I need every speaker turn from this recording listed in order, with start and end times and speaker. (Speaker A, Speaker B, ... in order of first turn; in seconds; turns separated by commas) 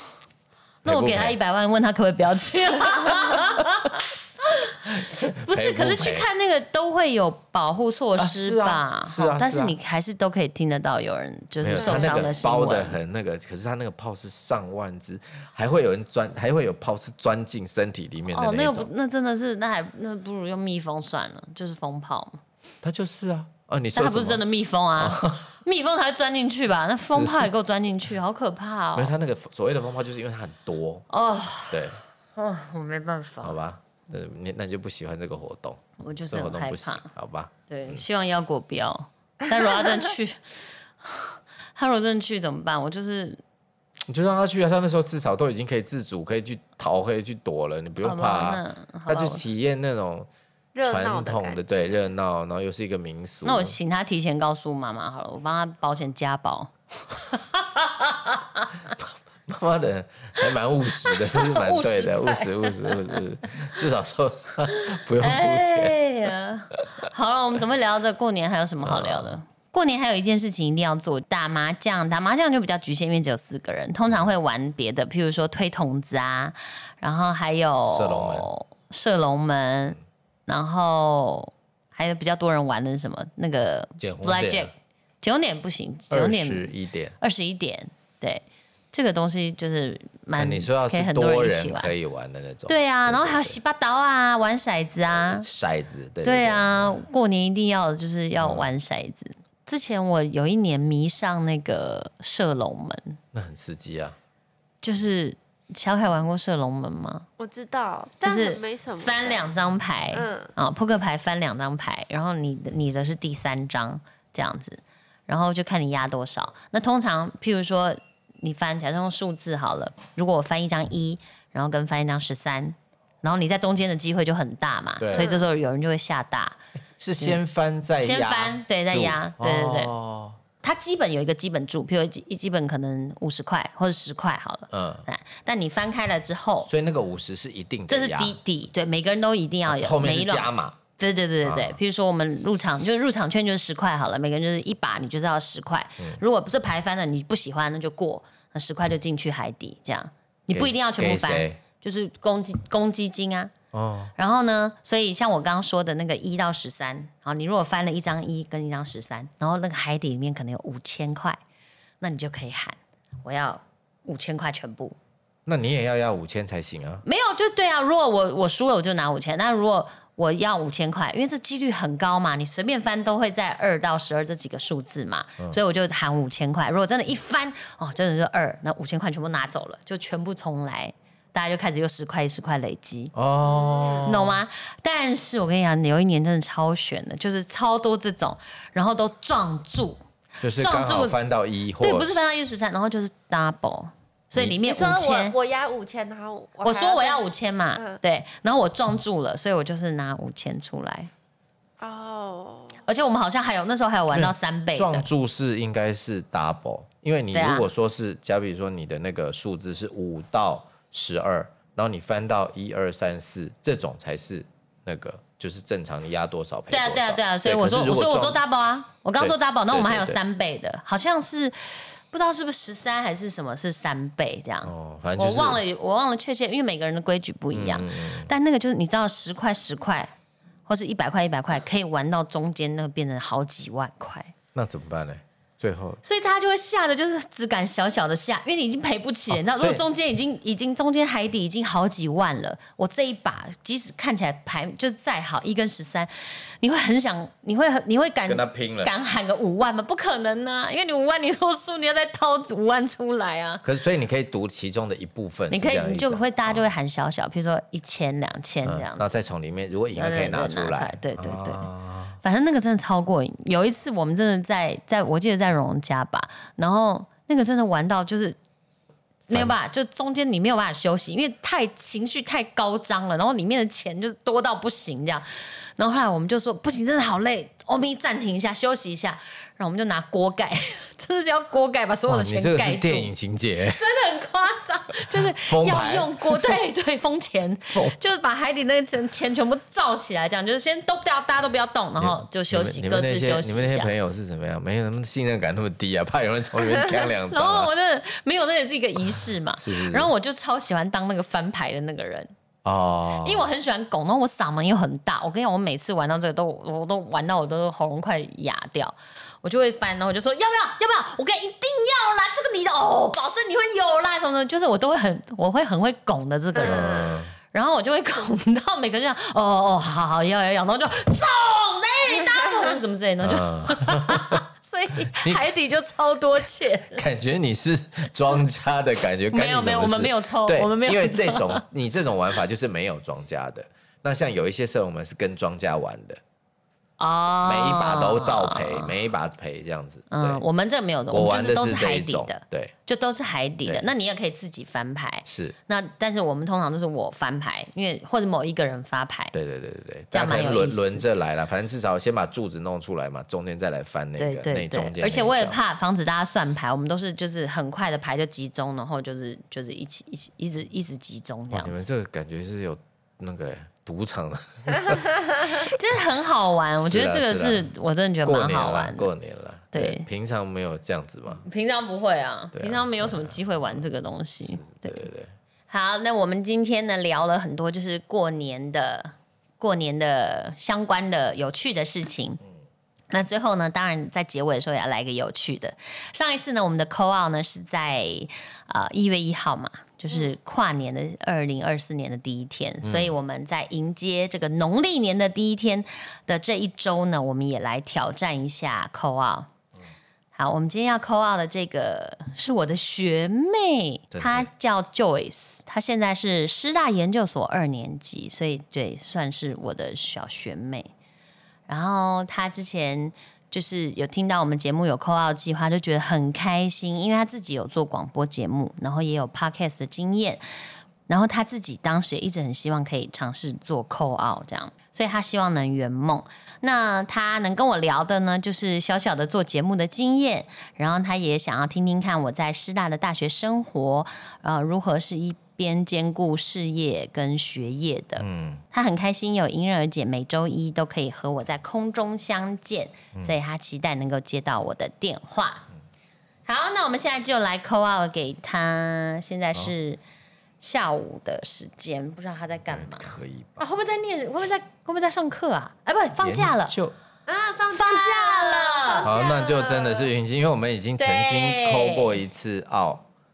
Speaker A: 0.8-4.7, Speaker B: 0.8-1.4, Speaker B: 3.0-3.5, Speaker B: 4.9-6.3, Speaker A: 5.4-13.0, Speaker B: 8.2-9.8, Speaker B: 11.6-18.9, Speaker C: 11.8-12.1, Speaker A: 18.3-22.4, Speaker B: 22.8-24.4, Speaker A: 23.9-29.1, Speaker B: 25.0-25.5, Speaker B: 27.1-27.5, Speaker B: 29.0-31.1, Speaker A: 31.1-33.6, Speaker B: 31.7-32.0, Speaker B: 33.4-38.0, Speaker A: 36.0-37.1, Speaker A: 37.7-43.4, Speaker B: 44.1-50.3, Speaker A: 48.0-49.5, Speaker C: 50.8-51.6, Speaker B: 50.8-53.8, Speaker A: 53.5-56.7, Speaker A: 57.3-58.7, Speaker B: 59.0-66.0, Speaker A: 61.1-63.2, Speaker A: 65.2-91.9, Speaker B: 68.8-69.3, Speaker B: 77.9-78.5, Speaker B: 84.0-84.7, Speaker B: 86.1-87.2, Speaker B: 90.3-93.6, Speaker A: 92.7-95.5, Speaker B: 95.1-97.0, Speaker A: 96.2-103.2, Speaker B: 98.4-98.7, Speaker B: 103.3-104.2, Speaker A: 104.8-107.3, Speaker C: 107.4-109.5, Speaker A: 108.2-126.6, Speaker C: 110.1-110.5, Speaker B: 125.0-125.3, Speaker C: 125.2-125.5, Speaker B: 127.0-130.4, Speaker A: 128.0-129.9, Speaker A: 130.6-136.7, Speaker B: 134.7-135.1, Speaker B: 136.6-138.4, Speaker A: 137.9-153.5, Speaker B: 139.7-140.8, Speaker B: 141.4-141.8, Speaker B: 150.5-151.6, Speaker B: 153.7-154.1, Speaker A: 154.2-161.4, Speaker A: 162.0-165.0, Speaker B: 165.5-167.0, Speaker A: 167.0-183.1, Speaker B: 183.1-184.4, Speaker C: 183.5-184.1, Speaker A: 184.0-190.0, Speaker B: 190.4-192.1, Speaker A: 190.6-191.2, Speaker A: 191.8-195.4, Speaker C: 194.7-197.2, Speaker A: 196.6-201.1, Speaker C: 201.8-202.8, Speaker A: 202.9-205.1, Speaker B: 204.1-218.4, Speaker A: 207.3-207.7, Speaker A: 216.7-230.1, Speaker B: 219.2-220.2, Speaker B: 224.6-225.6, Speaker B: 227.5-228.3, Speaker A: 230.7-234.3, Speaker B: 234.6-236.0, Speaker A: 236.0-253.6, Speaker B: 239.3-239.8, Speaker B: 248.3-248.9, Speaker B: 253.6-256.7, Speaker A: 255.5-259.1, Speaker B: 258.6-262.2, Speaker A: 259.9-261.7, Speaker A: 262.2-268.4, Speaker A: 269.3-283.1, Speaker B: 269.3-269.6, Speaker B: 282.1-283.8, Speaker A: 283.8-293.9, Speaker B: 285.2-286.6, Speaker B: 292.0-297.7, Speaker A: 297.3-302.3, Speaker B: 299.6-300.1, Speaker B: 302.6-303.5, Speaker A: 303.2-327.0, Speaker B: 316.6-317.4, Speaker C: 316.6-317.1, Speaker B: 323.2-324.4, Speaker B: 325.1-325.5, Speaker B: 326.9-336.2, Speaker A: 329.3-331.6, Speaker A: 337.0-338.9, Speaker B: 337.4-340.4, Speaker A: 340.1-349.3, Speaker B: 341.1-342.7, Speaker B: 345.3-345.6, Speaker B: 349.3-355.6, Speaker A: 350.1-351.0, Speaker A: 354.2-361.8, Speaker B: 361.5-365.3, Speaker A: 365.5-369.1, Speaker B: 366.8-367.7, Speaker B: 368.2-371.4, Speaker A: 369.7-370.1, Speaker A: 371.4-375.1, Speaker B: 372.5-373.9, Speaker B: 374.4-375.3, Speaker A: 375.7-382.4, Speaker A: 383.1-399.5, Speaker B: 392.8-393.1, Speaker A: 400.4-410.9, Speaker B: 404.1-404.5, Speaker A: 411.7-420.4, Speaker A: 421.1-445.7, Speaker B: 438.2-438.6, Speaker A: 446.5-450.0, Speaker A: 450.6-456.8, Speaker B: 452.7-453.6, Speaker B: 456.2-456.9, Speaker C: 457.3-460.1, Speaker A: 457.7-459.1, Speaker B: 459.1-463.1, Speaker A: 461.0-462.2